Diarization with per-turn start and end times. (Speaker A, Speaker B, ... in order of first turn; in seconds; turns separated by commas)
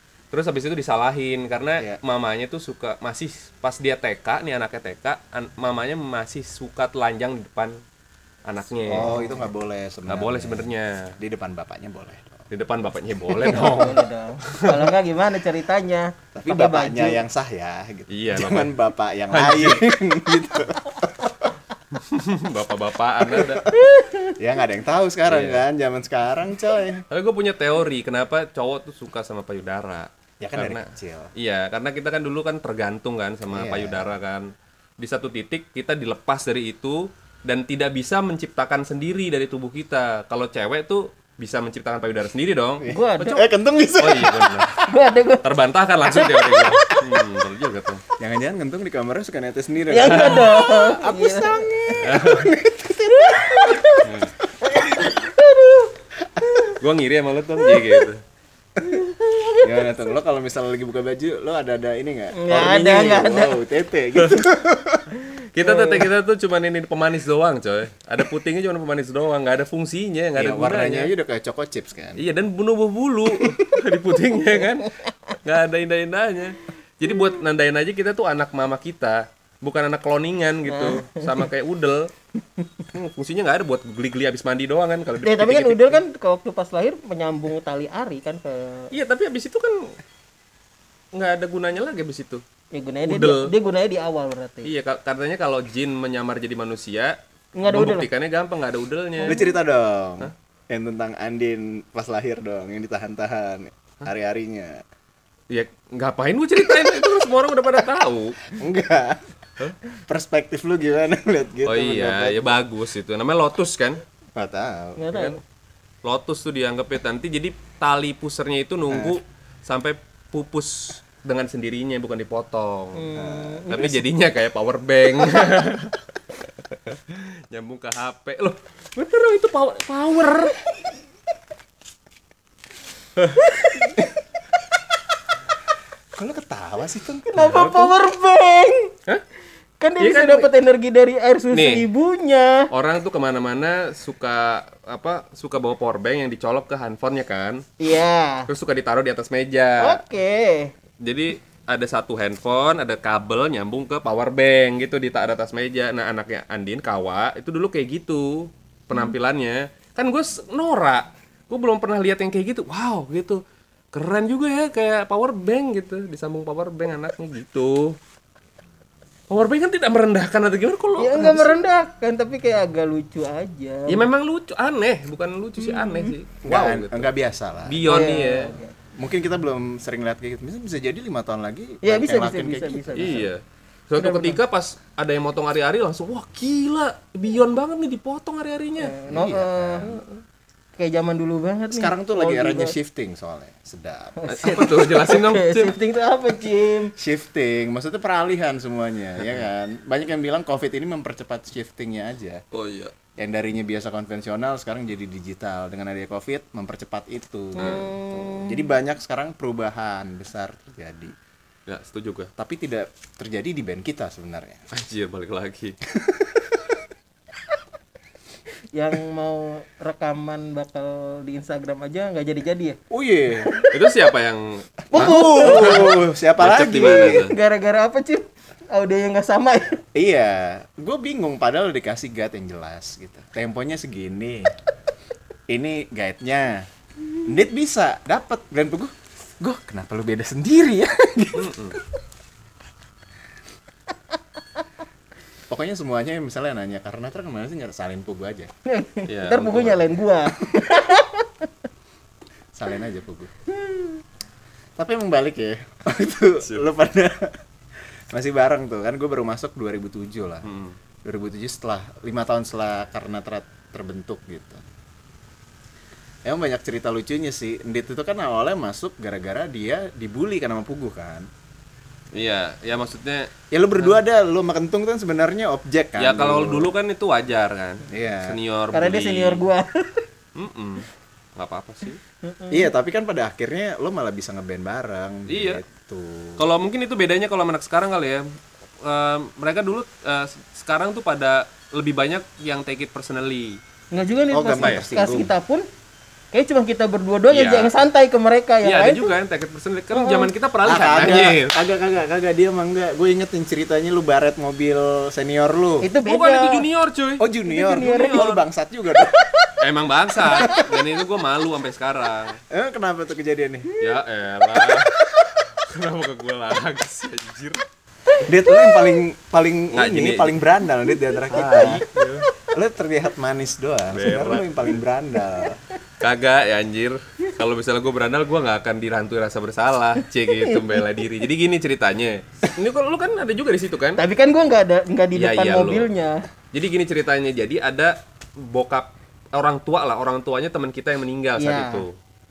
Speaker A: 0.3-7.8, Speaker A: 8.5-9.1, Speaker B: 8.9-12.4, Speaker C: 9.0-9.5, Speaker A: 10.1-11.1, Speaker A: 12.5-14.9, Speaker B: 13.3-13.9, Speaker C: 13.4-17.2, Speaker B: 16.3-21.5, Speaker A: 18.1-18.8, Speaker A: 19.3-19.9, Speaker A: 21.9-23.6, Speaker B: 23.4-23.7, Speaker C: 23.7-24.4, Speaker B: 24.4-27.0, Speaker A: 25.3-25.7, Speaker A: 27.1-43.4, Speaker B: 30.4-31.3, Speaker B: 33.5-34.2, Speaker B: 42.8-44.7, Speaker C: 42.9-43.5, Speaker A: 44.0-44.7, Speaker C: 44.8-45.5, Speaker A: 45.4-48.0, Speaker C: 46.0-46.7, Speaker B: 48.2-53.6, Speaker C: 49.9-52.0, Speaker A: 50.0-50.8, Speaker A: 52.0-52.5, Speaker C: 53.1-54.1, Speaker A: 54.0-54.3, Speaker C: 54.6-55.9, Speaker A: 56.7-58.2, Speaker C: 58.8-59.9, Speaker B: 59.6-65.0, Speaker C: 62.3-63.6, Speaker A: 62.6-63.2, Speaker A: 64.2-64.4, Speaker A: 65.5-71.1, Speaker C: 65.6-66.1, Speaker B: 70.4-72.2, Speaker A: 72.2-82.1, Speaker C: 80.7-81.4, Speaker A: 82.9-86.0, Speaker C: 85.2-88.9, Speaker A: 88.9-90.0, Speaker A: 91.2-92.4, Speaker C: 92.7-94.7, Speaker A: 93.0-93.5, Speaker A: 94.6-99.4, Speaker C: 97.6-98.1, Speaker C: 99.2-99.5, Speaker B: 99.2-104.8, Speaker A: 105.5-108.6, Speaker B: 108.6-109.3, Speaker B: 109.9-112.6, Speaker A: 111.7-114.0, Speaker B: 114.4-115.3, Speaker C: 115.0-115.4, Speaker A: 116.0-123.1, Speaker B: 118.9-119.2, Speaker C: 123.0-123.9, Speaker B: 123.2-124.0, Speaker A: 123.7-126.0, Speaker A: 126.7-130.6, Speaker A: 133.2-133.5, Speaker B: 136.2-137.7, Speaker C: 137.3-138.9, Speaker A: 137.4-137.9, Speaker C: 139.8-142.7, Speaker A: 140.0-140.5, Speaker A: 141.5-141.9, Speaker A: 142.7-147.7, Speaker C: 147.8-148.5, Speaker A: 148.5-150.0, Speaker C: 149.8-150.7, Speaker A: 151.0-163.4, Speaker A: 163.9-168.0, Speaker A: 169.3-171.6, Speaker C: 171.0-174.1, Speaker A: 173.9-177.1, Speaker C: 175.6-176.1, Speaker B: 176.4-178.0, Speaker A: 177.7-178.6, Speaker C: 177.8-178.8, Speaker B: 179.0-183.3, Speaker C: 181.8-183.3, Speaker A: 182.9-189.0, Speaker C: 183.9-184.4, Speaker C: 188.8-190.0, Speaker B: 189.1-190.0, Speaker C: 190.8-192.8, Speaker B: 191.7-194.2, Speaker C: 194.2-196.9, Speaker A: 194.3-195.8, Speaker B: 197.0-202.4, Speaker A: 202.5-202.9, Speaker B: 203.2-211.1, Speaker C: 207.6-208.7, Speaker A: 207.6-207.9, Speaker A: 211.7-212.3, Speaker B: 212.4-214.6, Speaker A: 214.7-215.8, Speaker B: 215.9-216.7, Speaker C: 218.7-222.8, Speaker B: 222.9-223.6, Speaker C: 223.4-223.7, Speaker A: 223.7-227.4, Speaker B: 224.9-227.3, Speaker C: 224.9-226.0, Speaker C: 226.9-229.8, Speaker B: 229.9-234.5, Speaker B: 235.5-236.7, Speaker B: 237.2-241.5, Speaker A: 241.3-241.8, Speaker B: 245.5-248.5, Speaker C: 248.7-251.3, Speaker A: 249.1-249.9, Speaker B: 252.5-253.3, Speaker B: 254.8-257.4, Speaker B: 258.1-260.5, Speaker A: 260.4-260.8, Speaker B: 261.1-264.6, Speaker B: 266.2-271.3, Speaker A: 272.1-274.0, Speaker B: 273.5-276.7, Speaker A: 276.0-279.4, Speaker B: 277.9-278.4, Speaker C: 278.7-280.1, Speaker A: 280.4-282.0, Speaker C: 282.2-282.7, Speaker B: 282.5-286.5, Speaker A: 285.3-285.6, Speaker A: 286.4-288.2, Speaker A: 288.8-293.6, Speaker C: 293.9-295.6, Speaker B: 294.3-295.3, Speaker A: 294.6-294.9, Speaker C: 296.3-299.1, Speaker A: 297.3-297.8, Speaker A: 298.6-301.5, Speaker C: 299.9-300.3, Speaker B: 300.6-305.9, Speaker C: 305.8-306.7, Speaker A: 306.0-307.2, Speaker B: 307.2-309.2, Speaker C: 307.5-308.4, Speaker A: 307.8-308.4, Speaker A: 309.6-312.4, Speaker B: 310.2-310.7, Speaker C: 310.3-310.6, Speaker B: 312.5-313.8, Speaker A: 313.8-314.9, Speaker B: 314.6-315.3, Speaker A: 315.5-317.6, Speaker B: 318.2-321.8, Speaker A: 319.7-320.4, Speaker A: 321.3-322.3, Speaker B: 322.4-325.6, Speaker A: 323.9-324.7, Speaker A: 326.0-334.0, Speaker C: 330.3-331.0, Speaker C: 334.0-336.2, Speaker A: 335.1-335.9, Speaker A: 336.5-341.9, Speaker C: 341.4-341.9